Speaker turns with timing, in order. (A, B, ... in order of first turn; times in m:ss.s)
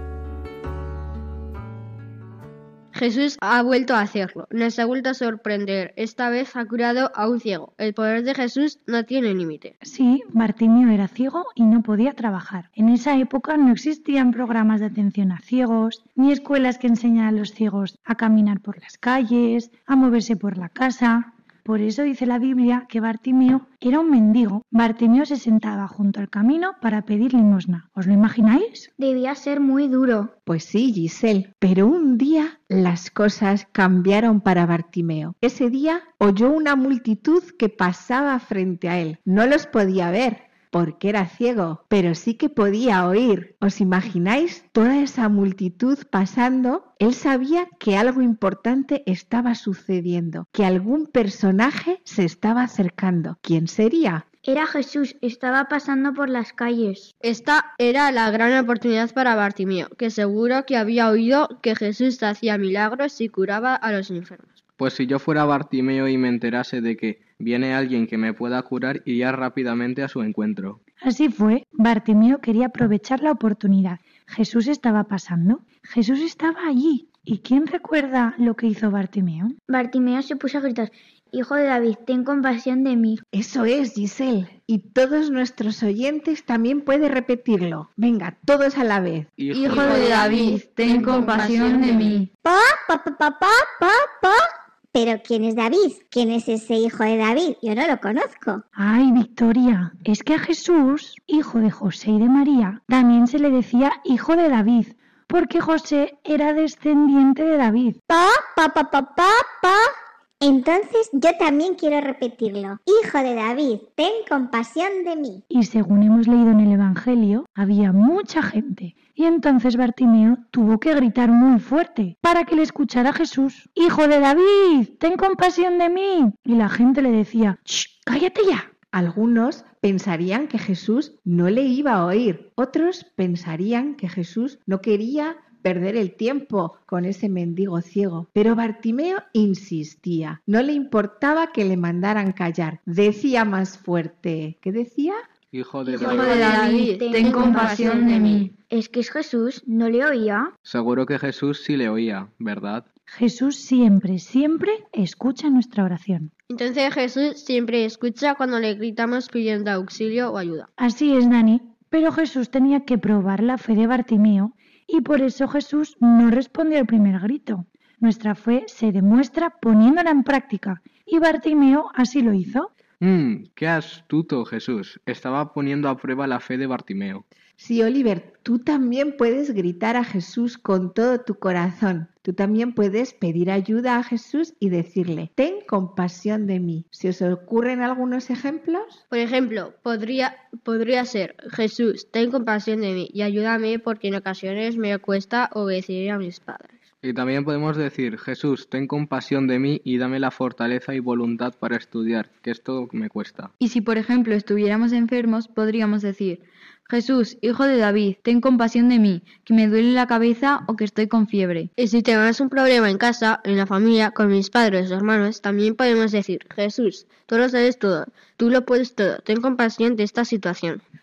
0:02.9-0:09.7 A
0:09.8-0:28.9 B
0:29.0-0:30.3 C
0:30.5-0:54.2 D
0:54.4-0:57.1 C
0:57.2-1:04.6 A
1:04.8-1:10.8 E
1:11.0-1:19.6 B
1:19.7-1:23.2 C
1:23.3-1:29.3 D
1:29.4-1:30.5 E
1:29.5-1:32.3 F
1:29.6-1:32.2 A
1:32.4-1:34.4 G
1:34.9-1:38.6 G
1:38.8-1:48.0 B
1:48.1-1:49.8 G
1:50.4-1:55.4 G
1:55.5-2:08.7 B
2:08.9-2:25.2 D
2:25.5-2:26.6 E
2:25.9-2:30.5 C
2:25.9-2:28.5 F
2:26.0-2:28.5 A
2:30.6-2:32.9 E
2:33.1-2:36.3 B
2:36.5-2:40.7 A
2:40.8-2:52.7 B
2:53.0-2:57.2 E
2:57.6-3:09.0 D
3:09.1-3:16.8 A
3:17.0-3:23.5 E
3:23.6-3:31.7 F
3:31.8-3:40.8 A